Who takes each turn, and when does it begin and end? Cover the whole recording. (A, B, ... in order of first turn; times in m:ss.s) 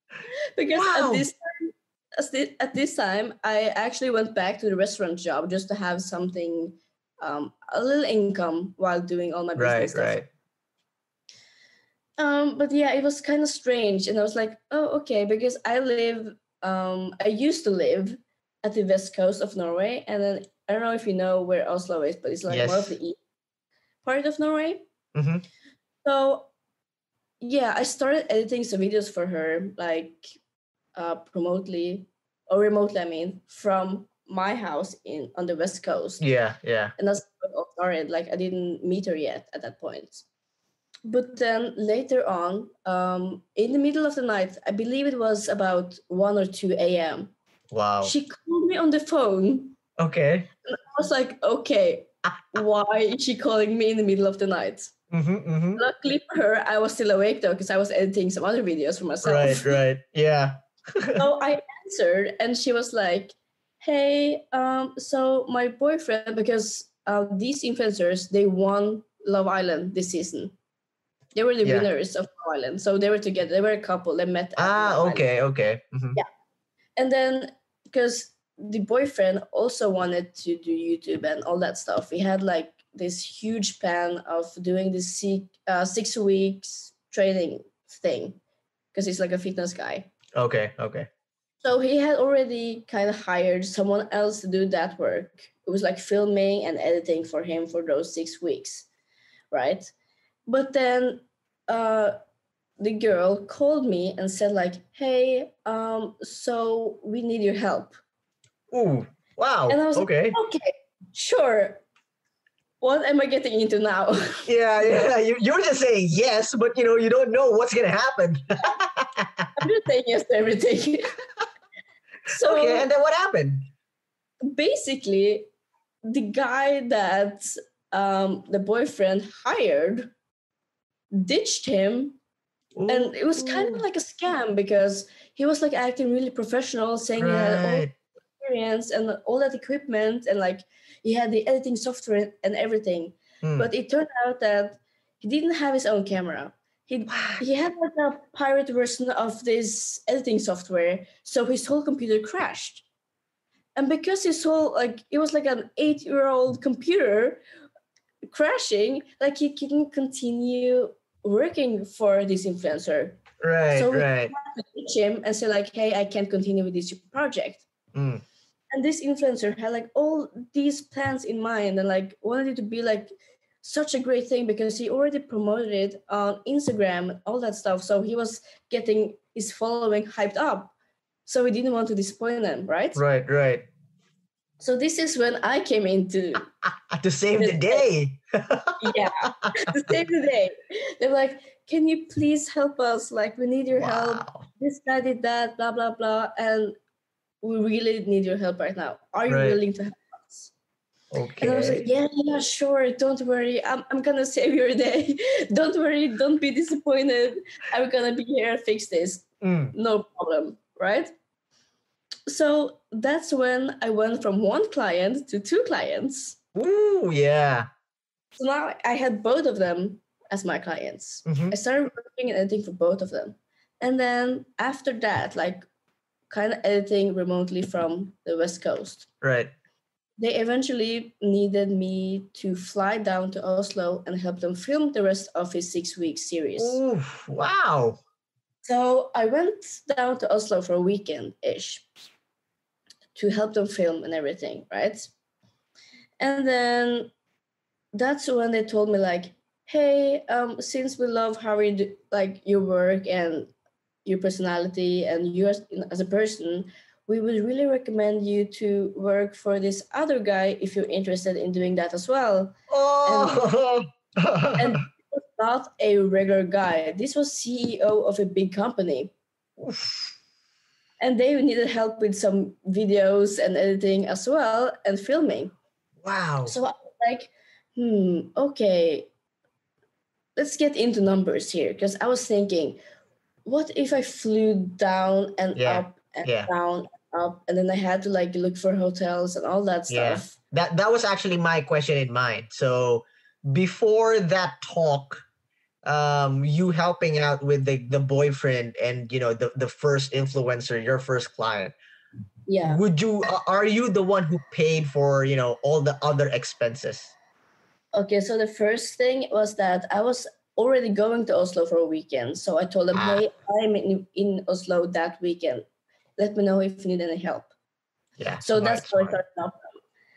0:00.6-0:10.2 A
0:00.7-0:01.3 B
0:09.6-0:10.2 B
0:12.2-0:23.2 A
0:22.5-0:22.9 B
0:24.0-0:24.8 A
0:25.1-0:25.4 B
0:26.0-0:26.5 A
0:27.4-0:30.4 A
0:30.9-0:36.2 A
0:36.2-0:36.9 B
0:37.0-0:40.2 A
0:41.0-0:47.3 A
0:47.7-0:48.1 B
0:48.0-0:49.8 A
0:50.0-0:50.5 B
0:50.7-0:54.9 A
0:55.1-0:55.8 B
0:55.8-0:59.8 A
0:59.2-1:01.2 B
1:01.2-1:10.5 A
1:11.3-1:15.3 A
1:14.6-1:16.2 B
1:17.0-1:28.4 A
1:28.9-1:30.1 A
1:30.4-1:31.1 B
1:31.6-1:38.9 A
1:39.5-1:39.9 A
1:40.5-1:42.2 A
1:42.8-1:47.9 A
1:48.7-1:50.4 B
1:49.7-1:51.8 A
1:52.8-1:55.0 A
1:54.4-1:59.5 B
1:59.6-2:01.1 A
2:02.3-2:02.9 A
2:02.3-2:03.6 B
2:04.5-2:05.5 A
2:06.0-2:10.1 A
2:11.1-2:12.2 A
2:12.7-2:13.8 B
2:12.9-2:17.9 A
2:17.2-2:17.9 B
2:18.4-2:32.8 A
2:23.4-2:23.7 B
2:27.1-2:27.4 B
2:33.8-2:37.4 A
2:38.3-2:47.6 A
2:43.4-2:44.3 B
2:47.9-2:48.2 B
2:48.7-3:00.7 A
3:01.2-3:03.0 A
3:02.9-3:03.6 B
3:04.6-3:06.5 A
3:06.9-3:09.5 B
3:07.4-3:07.8 A
3:08.8-3:16.8 A
3:13.7-3:14.4 B
3:17.4-3:20.5 A
3:19.3-3:19.6 B
3:21.1-3:21.8 B
3:21.4-3:31.1 A
3:29.4-3:29.7 B
3:32.3-3:36.4 A
3:36.6-3:37.7 B
3:38.4-3:45.6 A
3:41.2-3:41.5 B
3:46.3-3:49.1 A
3:49.2-3:49.5 B
3:50.2-3:56.8 A
3:56.6-3:58.0 B
3:58.6-4:01.9 A
4:03.1-4:05.1 A
4:06.2-4:07.1 A
4:07.9-4:13.5 A
4:14.0-4:23.5 A
4:22.7-4:24.8 B
4:24.6-4:29.1 A
4:29.6-4:30.1 B
4:31.0-4:35.5 A
4:36.0-4:36.6 B
4:36.4-4:39.1 A
4:40.4-4:42.8 A
4:43.4-4:50.4 A
4:45.6-4:46.5 B
4:49.9-4:55.2 B
4:55.8-5:01.7 B
5:02.5-5:02.8 A
5:02.6-5:07.1 B
5:07.9-5:15.6 A
5:12.9-5:13.2 B
5:16.2-5:17.5 A
5:18.2-5:19.2 B
5:18.4-5:19.8 A